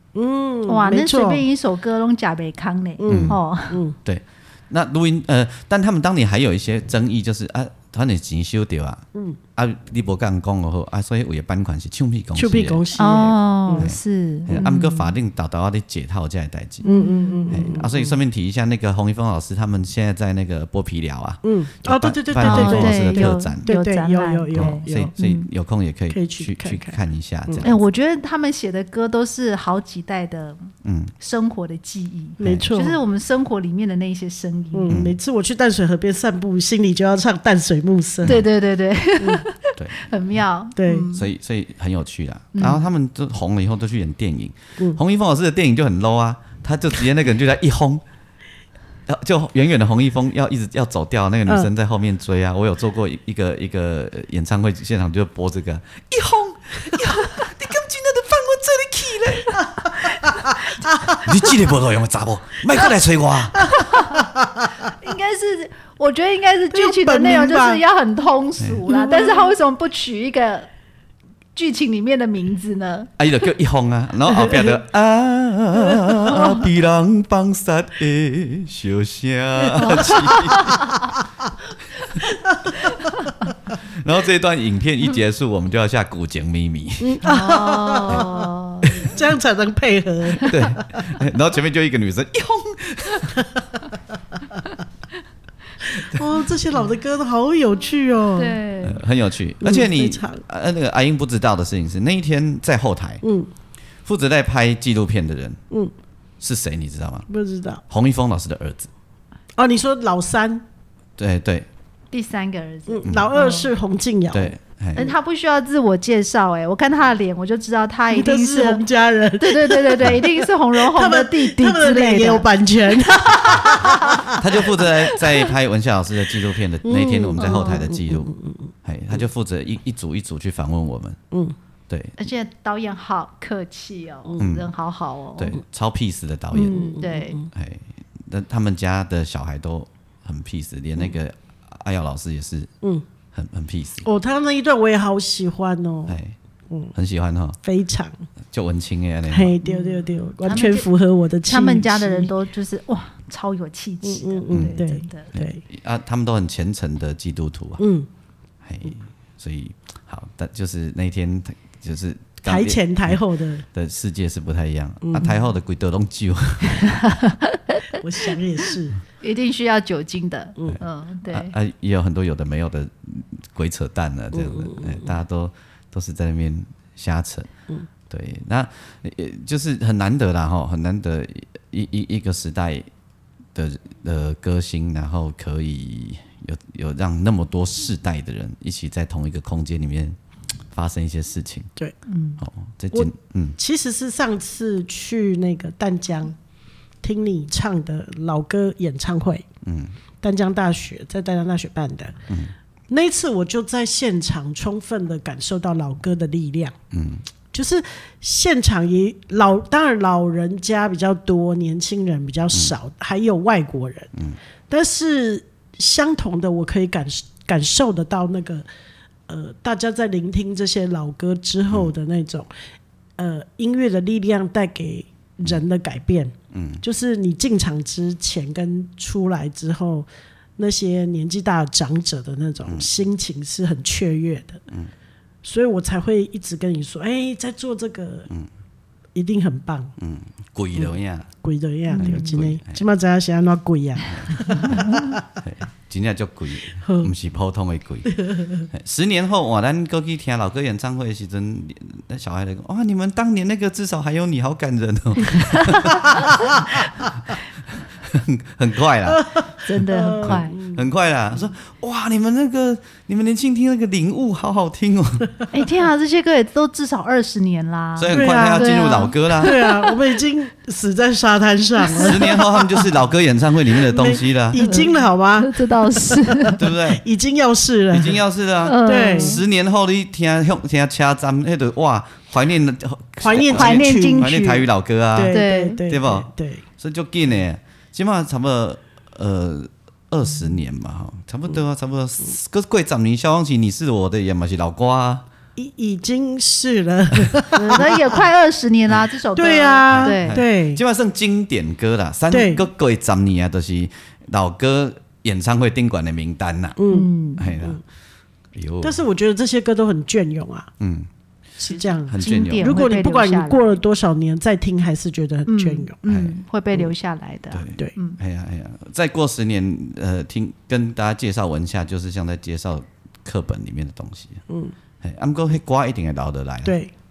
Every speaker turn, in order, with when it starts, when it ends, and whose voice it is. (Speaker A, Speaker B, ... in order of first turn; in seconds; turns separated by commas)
Speaker A: 0.1-1.4, Speaker B: 0.7-3.8, Speaker A: 3.0-4.0, Speaker C: 3.1-3.4, Speaker C: 4.0-9.0, Speaker C: 9.6-12.8, Speaker A: 12.3-13.9, Speaker B: 13.0-15.1, Speaker C: 13.8-16.8, Speaker B: 16.8-17.8, Speaker A: 16.9-18.1, Speaker C: 17.5-23.7, Speaker A: 21.4-25.1, Speaker B: 22.4-25.5, Speaker C: 24.5-27.8, Speaker A: 26.1-27.7, Speaker B: 27.6-35.0, Speaker C: 30.8-31.1, Speaker C: 32.4-32.7, Speaker A: 32.4-33.0, Speaker A: 34.7-38.4, Speaker C: 34.9-35.2, Speaker B: 38.2-41.2, Speaker A: 39.2-39.4, Speaker A: 40.8-41.1, Speaker C: 41.1-48.0, Speaker B: 42.5-42.9, Speaker C: 49.1-60.1, Speaker A: 59.5-61.3, Speaker B: 60.1-60.4, Speaker C: 61.1-63.8, Speaker A: 63.6-64.7, Speaker B: 63.7-64.2, Speaker B: 64.9-70.7, Speaker A: 66.7-67.8, Speaker A: 68.9-69.5, Speaker B: 71.5-73.1, Speaker C: 73.2-80.8, Speaker A: 74.3-74.7, Speaker B: 79.7-80.9, Speaker A: 82.3-82.7, Speaker B: 82.8-83.2, Speaker C: 83.9-87.2, Speaker A: 87.0-88.5, Speaker B: 87.2-89.1, Speaker C: 88.8-89.2, Speaker A: 89.0-90.5, Speaker C: 90.4-93.5, Speaker A: 95.9-98.6, Speaker B: 98.3-99.0, Speaker C: 98.8-103.2, Speaker A: 99.6-100.4, Speaker A: 103.2-103.5, Speaker C: 104.0-105.6, Speaker C: 106.4-107.2, Speaker A: 107.3-107.8, Speaker C: 107.9-108.9, Speaker A: 109.6-110.6, Speaker C: 111.2-111.7, Speaker B: 112.1-113.7, Speaker A: 112.9-114.5, Speaker C: 114.3-115.1, Speaker B: 115.0-118.8, Speaker A: 118.1-124.6, Speaker B: 119.4-124.3, Speaker C: 124.4-128.3, Speaker A: 126.8-128.7, Speaker B: 127.4-127.8, Speaker C: 128.8-131.2, Speaker C: 131.9-132.1, Speaker B: 132.2-135.6, Speaker C: 134.4-134.7, Speaker C: 135.4-136.9, Speaker B: 136.5-137.4, Speaker A: 136.6-137.4, Speaker C: 137.5-142.7, Speaker C: 143.3-144.1, Speaker A: 144.1-146.2, Speaker C: 146.1-146.3, Speaker C: 146.9-147.6, Speaker A: 147.6-148.2, Speaker C: 148.5-149.6, Speaker A: 149.3-152.3, Speaker B: 149.6-150.9, Speaker B: 151.4-155.3, Speaker A: 154.0-155.6, Speaker C: 154.5-154.8, Speaker C: 155.3-157.8, Speaker A: 157.8-158.1, Speaker C: 158.6-163.2, Speaker A: 162.5-163.6, Speaker C: 163.7-166.8, Speaker A: 165.0-165.3, Speaker B: 166.7-168.0, Speaker A: 168.0-169.0, Speaker B: 169.2-171.5, Speaker C: 170.7-177.5, Speaker A: 174.3-175.1, Speaker C: 178.1-182.9, Speaker C: 183.5-190.2, Speaker C: 190.7-191.7, Speaker B: 192.1-192.4, Speaker C: 192.4-193.6, Speaker A: 192.9-196.3, Speaker A: 197.0-199.4, Speaker C: 199.6-199.9, Speaker A: 200.2-202.1, Speaker C: 202.3-202.5, Speaker A: 202.9-206.7, Speaker C: 206.9-207.2, Speaker A: 207.5-214.1, Speaker A: 214.7-218.6, Speaker A: 219.3-222.5, Speaker A: 223.2-234.6, Speaker C: 226.5-226.8, Speaker A: 235.4-238.3, Speaker A: 239.1-239.9, Speaker C: 240.0-241.3, Speaker A: 241.4-245.2, Speaker B: 241.9-242.4, Speaker C: 242.0-242.8, Speaker C: 244.1-256.5, Speaker B: 244.3-245.2, Speaker A: 246.8-247.1, Speaker A: 248.1-248.7, Speaker B: 255.5-256.1, Speaker C: 258.0-259.3, Speaker A: 259.1-260.9, Speaker B: 259.6-260.6, Speaker C: 260.2-265.3, Speaker B: 265.5-269.9, Speaker C: 268.0-269.5, Speaker A: 268.1-268.8, Speaker A: 269.4-272.9, Speaker B: 271.8-272.4, Speaker C: 271.9-274.6, Speaker A: 273.7-278.2, Speaker B: 274.6-276.6, Speaker C: 276.6-277.0, Speaker C: 277.9-295.2, Speaker B: 278.6-279.4, Speaker A: 278.8-279.4, Speaker A: 283.2-284.3, Speaker B: 283.4-284.7, Speaker A: 285.1-286.6, Speaker B: 285.3-285.8, Speaker A: 295.6-298.1, Speaker B: 297.5-300.4, Speaker A: 299.3-300.8, Speaker C: 299.9-306.8, Speaker A: 302.3-302.6, Speaker A: 306.8-307.8, Speaker B: 306.9-307.5, Speaker C: 307.4-307.8, Speaker C: 308.5-309.0, Speaker A: 308.8-310.7, Speaker C: 310.8-311.1, Speaker A: 311.6-315.9, Speaker B: 311.6-313.8, Speaker C: 312.1-312.8, Speaker B: 315.5-318.2, Speaker C: 316.0-316.4, Speaker C: 317.5-324.4, Speaker A: 324.5-324.7, Speaker C: 325.0-326.8, Speaker A: 326.6-326.9